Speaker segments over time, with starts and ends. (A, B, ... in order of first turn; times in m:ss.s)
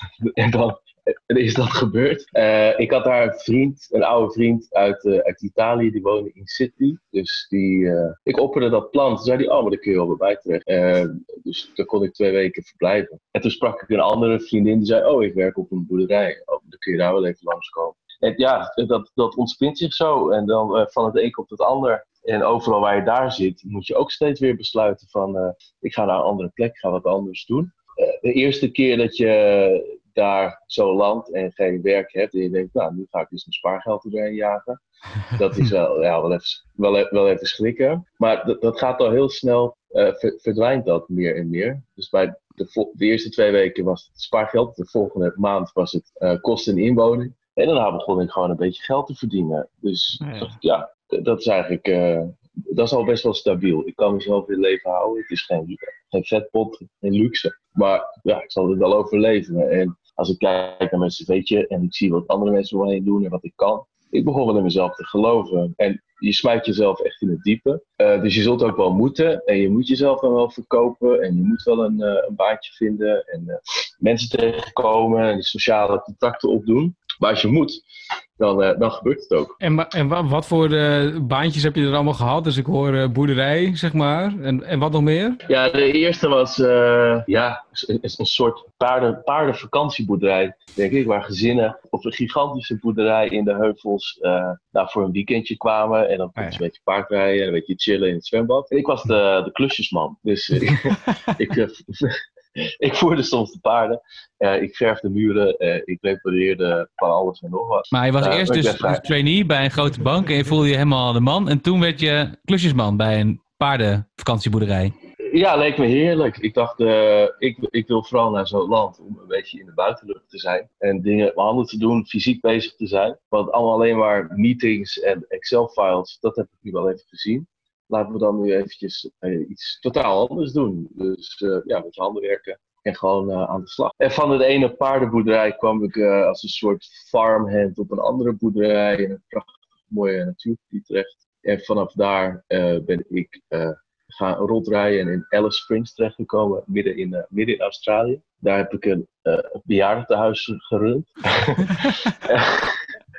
0:00.2-0:34.8 A
0:35.3-1:17.8 A
0:50.2-0:50.5 B
1:18.4-1:19.6 A
1:19.6-1:25.4 B
1:25.5-1:49.0 A
1:47.9-1:54.9 C
1:55.3-2:32.8 A